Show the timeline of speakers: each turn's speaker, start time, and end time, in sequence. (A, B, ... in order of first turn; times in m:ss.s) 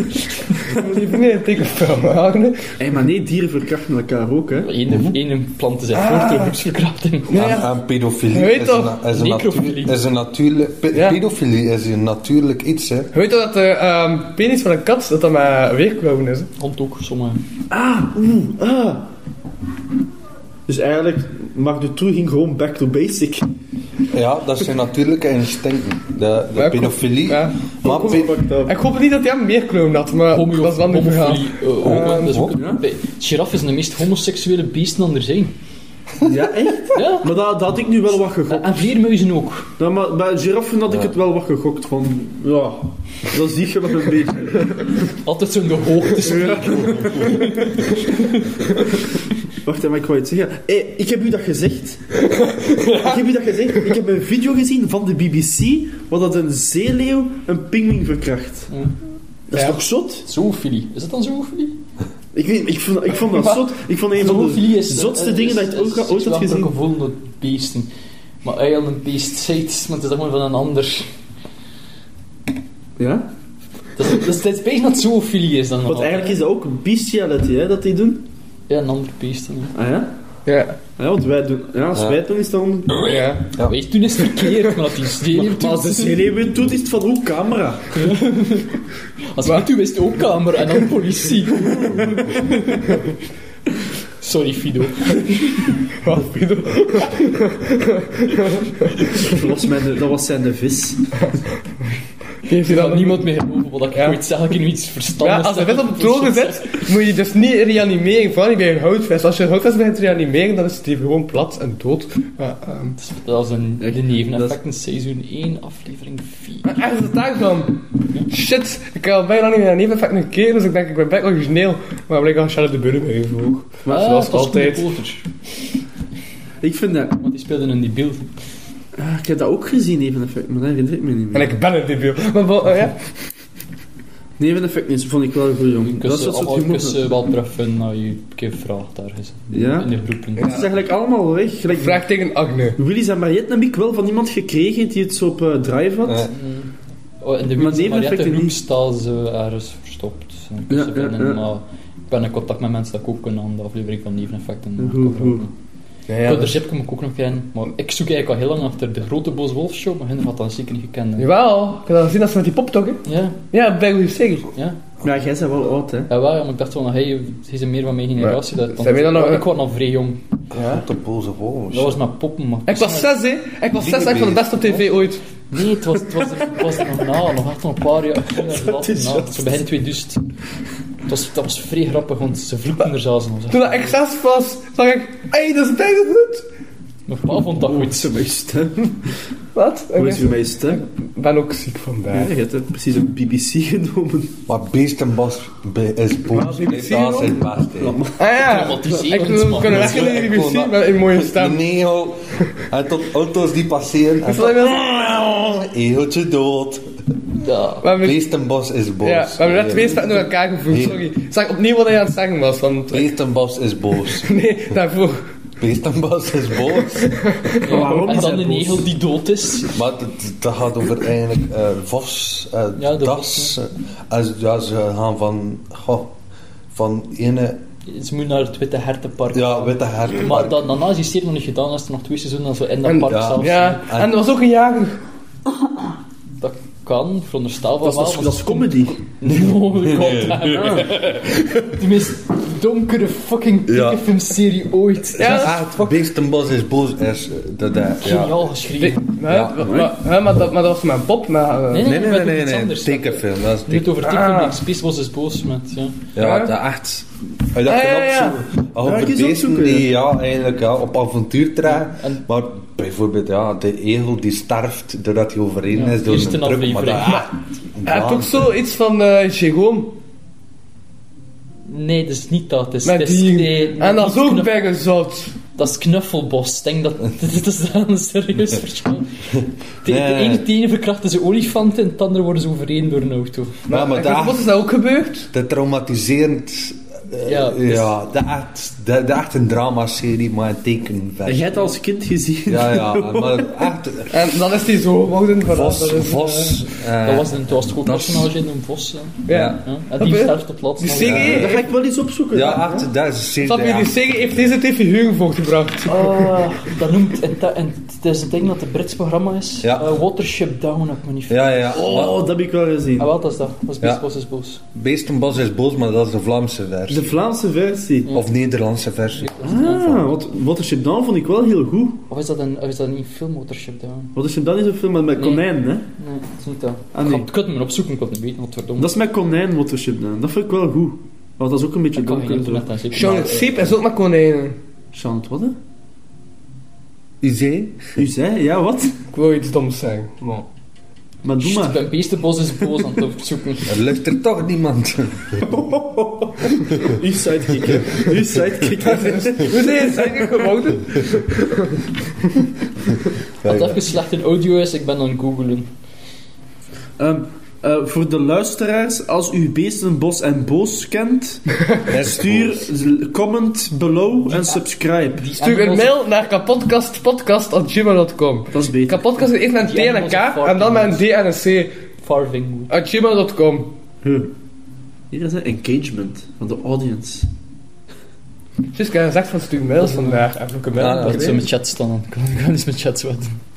0:00.6-0:02.7 A
0:02.8-0:05.2 B
0:04.6-0:07.4 C
0:06.0-0:06.5 A
0:07.3-0:07.7 A
0:07.3-0:13.1 D
0:08.3-0:09.0 A
0:09.1-0:10.0 C
0:10.9-0:11.2 A
0:13.1-0:16.5 A
0:16.6-0:17.4 C
0:17.7-0:19.1 B
0:20.7-0:23.5 B
0:24.1-0:28.3 D
0:26.6-0:32.5 A
0:27.8-0:28.8 B
0:30.3-0:35.6 C
0:31.9-0:32.6 D
0:32.6-0:32.8 B
0:36.2-0:38.8 B
0:36.9-0:37.4 C
0:38.5-0:39.7 C
0:39.8-0:45.0 B
0:40.9-0:41.1 D
0:45.1-0:48.1 C
0:46.2-0:47.6 B
0:49.6-0:52.2 B
0:52.4-0:53.2 A
0:52.8-0:58.7 B
0:59.5-1:00.3 B
1:00.2-1:01.8 C
1:02.3-1:06.7 B
1:04.1-1:07.9 C
1:08.4-1:11.1 C
1:13.0-1:13.3 B
1:14.0-1:16.4 C
1:15.9-1:18.2 B
1:18.7-1:19.8 C
1:19.7-1:20.1 B
1:20.5-1:20.8 A
1:21.0-1:23.0 B
1:21.9-1:22.2 D
1:23.0-1:23.5 A
1:23.6-1:26.2 C
1:25.3-1:28.2 B
1:28.0-1:28.7 C
1:29.3-1:32.1 C
1:34.2-1:35.2 C
1:36.0-1:39.4 A
1:39.2-1:41.1 B
1:42.4-1:43.3 A
1:42.5-1:46.8 C
1:43.9-1:44.2 A
1:45.2-1:53.0 A
1:53.0-1:56.8 C
1:53.8-1:54.6 B
1:56.6-2:04.9 A
2:03.9-2:05.3 C
2:06.6-2:07.2 B
2:07.2-2:08.3 C
2:09.0-2:11.5 B
2:11.3-2:13.1 A
2:14.4-2:17.0 B
2:15.9-2:20.6 C
2:19.5-2:22.0 B
2:20.4-2:20.7 A
2:21.7-2:22.8 A
2:22.8-2:26.3 B
2:26.0-2:26.3 D
2:26.3-2:35.5 C
2:27.6-2:28.6 B
2:30.7-2:31.4 B
2:34.8-2:35.4 B
2:36.1-2:36.6 A
2:36.2-2:41.3 C
2:41.2-2:44.5 A
2:43.0-2:43.4 C
2:45.0-2:46.1 B
2:46.1-2:50.2 C
2:48.2-2:49.4 A
2:50.5-2:50.8 A
2:50.6-2:52.0 D
2:51.7-2:53.1 C
2:52.6-2:55.2 A
2:53.8-2:54.9 D
2:55.5-3:00.3 C
2:58.3-2:59.6 B
3:01.0-3:03.9 C
3:03.5-3:06.4 A
3:07.1-3:08.1 C
3:07.5-3:09.2 B
3:09.6-3:12.3 A
3:09.9-3:10.8 B
3:12.1-3:14.4 B
3:14.5-3:18.0 D
3:16.3-3:17.4 A
3:17.8-3:19.0 B
3:18.2-3:21.6 A
3:18.4-3:20.1 C
3:19.6-3:26.8 D
3:24.2-3:25.3 A
3:27.4-3:27.9 C
3:27.8-3:28.2 A
3:28.0-3:31.1 D
3:29.0-3:33.1 A
3:32.9-3:34.3 D
3:34.1-3:35.3 A
3:35.6-3:37.3 D
3:36.9-3:38.0 A
3:37.6-3:38.9 B
3:37.6-3:39.8 C
3:39.7-3:46.1 D
3:42.7-3:43.6 C
3:46.7-3:47.6 D
3:47.8-3:53.8 C
3:49.3-3:50.7 D
3:52.8-3:55.0 A
3:53.0-3:54.2 D
3:56.4-4:05.6 C
3:57.8-3:59.0 B
3:59.4-4:01.4 D
4:00.5-4:00.9 B
4:03.6-4:04.1 D
4:05.2-4:06.0 A
4:05.2-4:08.5 D
4:08.0-4:09.2 C
4:08.8-4:12.0 A
4:09.3-4:09.7 D
4:09.6-4:10.0 B
4:11.7-4:16.1 C
4:11.8-4:14.0 D
4:14.0-4:14.6 A
4:16.1-4:28.5 D
4:16.2-4:16.5 A
4:17.6-4:18.4 A
4:18.8-4:19.9 B
4:21.8-4:22.2 C
4:25.7-4:27.3 C
4:27.8-4:30.0 A
4:31.6-4:34.5 C
4:32.8-4:35.4 A
4:35.6-4:43.6 C
4:39.4-4:40.5 D
4:43.7-4:45.3 A
4:43.7-4:44.5 D
4:45.3-4:51.6 D
4:47.2-4:47.9 C
4:51.2-4:53.6 B
4:52.4-4:54.3 D
4:54.1-4:56.6 A
4:55.5-4:58.3 D
4:57.0-5:01.4 C
4:59.3-5:01.6 A
4:59.3-4:59.6 D
5:01.0-5:01.6 D
5:01.3-5:02.9 B
5:02.3-5:04.2 D
5:03.4-5:06.3 A
5:05.9-5:12.1 C
5:09.6-5:10.0 D
5:11.3-5:12.2 D
5:11.7-5:13.1 B
5:13.0-5:14.6 C
5:14.7-5:17.2 D
5:16.9-5:18.2 B
5:18.1-5:20.1 D
5:19.1-5:20.0 C
5:19.4-5:22.0 B
5:22.1-5:24.1 C
5:24.1-5:25.9 B
5:25.2-5:25.4 C
5:26.0-5:28.9 C
5:26.9-5:27.3 B
5:28.8-5:32.7 B
5:32.0-5:33.6 C
5:32.9-5:34.6 A
5:34.9-5:35.6 B
5:37.2-5:38.0 D
5:38.0-5:39.0 B
5:39.1-5:40.4 A
5:41.2-5:41.9 B
5:41.4-5:43.8 C
5:43.6-5:45.4 D
5:45.4-5:50.5 B
5:48.8-5:51.8 A
5:53.4-5:53.8 D
5:53.4-5:55.7 C
5:57.0-6:05.3 B
6:01.9-6:02.7 D
6:04.3-6:04.6 C
6:05.2-6:06.0 C
6:05.4-6:11.7 A
6:08.5-6:09.3 B
6:09.6-6:11.0 C
6:12.0-6:12.7 C
6:12.7-6:13.7 A
6:14.0-6:14.3 B
6:15.1-6:17.3 B
6:18.7-6:21.4 A
6:19.8-6:23.4 C
6:20.8-6:21.4 D